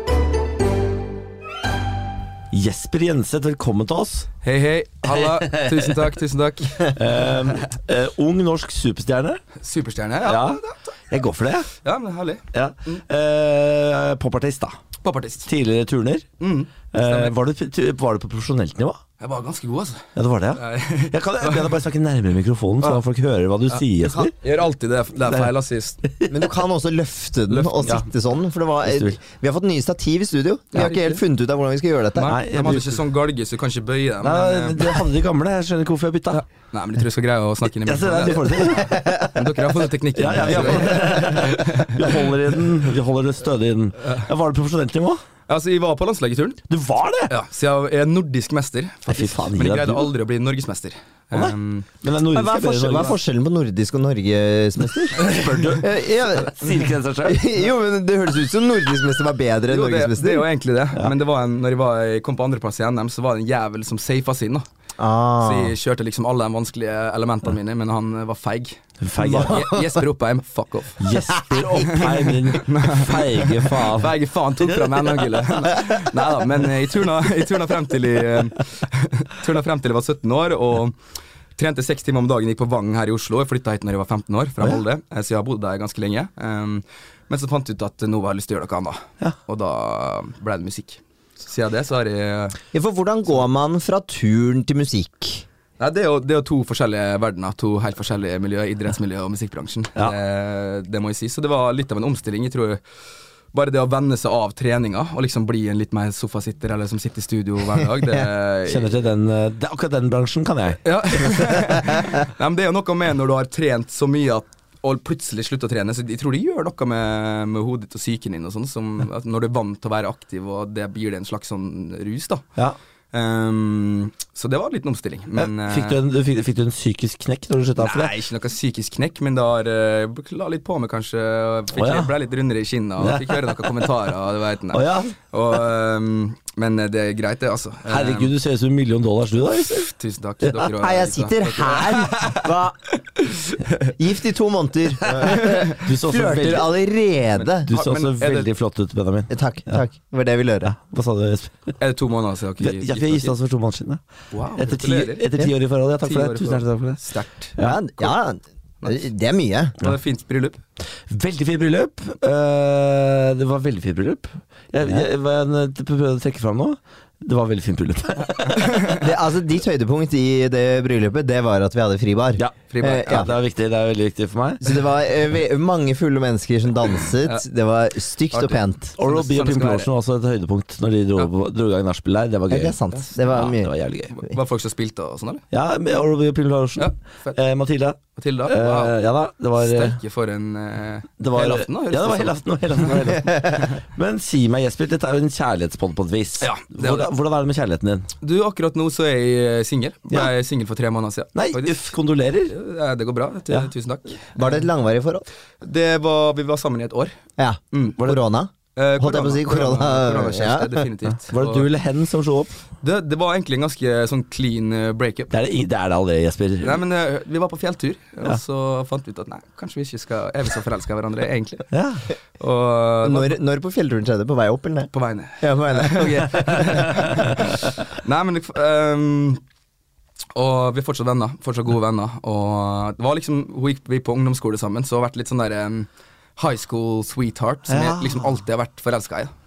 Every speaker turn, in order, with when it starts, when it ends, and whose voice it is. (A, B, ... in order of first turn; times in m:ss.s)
0:02.5-0:04.3 A
0:04.4-0:07.1 B
0:05.1-0:06.0 A
0:06.8-0:09.4 A
0:09.6-0:10.9 B
0:10.2-0:11.7 A
0:11.8-0:13.0 B
0:12.5-0:14.8 A
0:15.0-0:15.5 B
0:15.5-0:16.3 A
0:16.4-0:17.3 B
0:16.9-0:19.0 A
0:19.2-0:21.8 B
0:20.2-0:24.3 A
0:23.7-0:26.0 B
0:26.0-0:26.5 A
0:26.3-0:32.3 C
0:27.5-0:27.9 B
0:28.8-0:29.2 A
0:30.7-0:31.2 B
0:32.2-0:35.1 B
0:32.2-0:33.0 A
0:34.2-0:36.4 A
0:36.3-0:42.4 B
0:37.8-0:39.0 A
0:38.8-0:39.4 C
0:40.2-0:45.2 A
0:45.5-0:46.6 B
0:46.7-0:47.3 A
0:47.3-0:51.9 B
0:49.1-0:50.1 A
0:51.3-0:53.2 A
0:52.3-0:55.2 C
0:55.1-0:57.4 A
0:55.2-0:55.8 B
0:55.8-0:56.7 C
0:57.2-1:00.5 C
0:59.7-1:04.6 B
1:05.0-1:05.7 C
1:05.4-1:21.0 B
1:09.0-1:09.7 A
1:09.2-1:09.8 C
1:11.0-1:15.5 A
1:11.3-1:11.8 C
1:21.6-1:32.6 B
1:32.7-1:35.4 C
1:35.8-1:42.8 B
1:43.5-1:48.9 B
1:48.7-1:51.2 A
1:50.8-2:02.4 B
2:03.1-2:06.0 B
2:05.4-2:08.1 A
2:07.8-2:18.3 B
2:11.7-2:12.1 A
2:13.0-2:13.8 A
2:14.7-2:15.1 A
2:17.9-2:20.7 A
2:19.7-2:22.5 B
2:20.8-2:22.8 C
2:23.2-2:23.9 B
2:24.0-2:27.7 C
2:25.2-2:25.8 B
2:25.8-2:26.7 A
2:27.4-2:28.5 B
2:27.6-2:29.8 A
2:29.3-2:30.7 C
2:30.6-2:31.8 A
2:31.8-2:33.3 B
2:32.6-2:34.0 A
2:34.3-2:35.3 B
2:34.6-2:37.0 A
2:36.0-2:37.5 B
2:37.6-2:38.1 A
2:37.6-2:39.8 C
2:39.8-2:40.6 B
2:41.1-2:48.9 A
2:48.5-2:49.0 B
2:48.9-2:53.3 C
2:52.4-2:54.8 A
2:52.7-2:53.3 B
2:54.6-2:58.9 C
2:58.3-2:59.9 B
2:59.0-3:04.2 A
3:02.5-3:03.7 C
3:04.1-3:05.4 B
3:05.5-3:10.0 A
3:06.8-3:07.4 B
3:08.2-3:09.0 B
3:09.6-3:13.1 B
3:11.2-3:18.1 A
3:13.3-3:13.7 C
3:16.4-3:17.1 B
3:18.2-3:22.0 B
3:21.4-3:22.6 A
3:22.5-3:24.6 B
3:24.4-3:25.2 C
3:25.6-3:27.2 B
3:27.4-3:30.9 C
3:27.7-3:28.1 B
3:28.8-3:31.7 B
3:31.3-3:32.6 A
3:32.8-3:35.3 B
3:35.3-3:36.8 A
3:36.6-3:41.7 B
3:41.7-3:42.0 A
3:42.4-3:43.4 B
3:43.0-3:47.2 C
3:44.9-3:49.4 B
3:50.4-3:59.3 B
3:57.7-3:58.3 A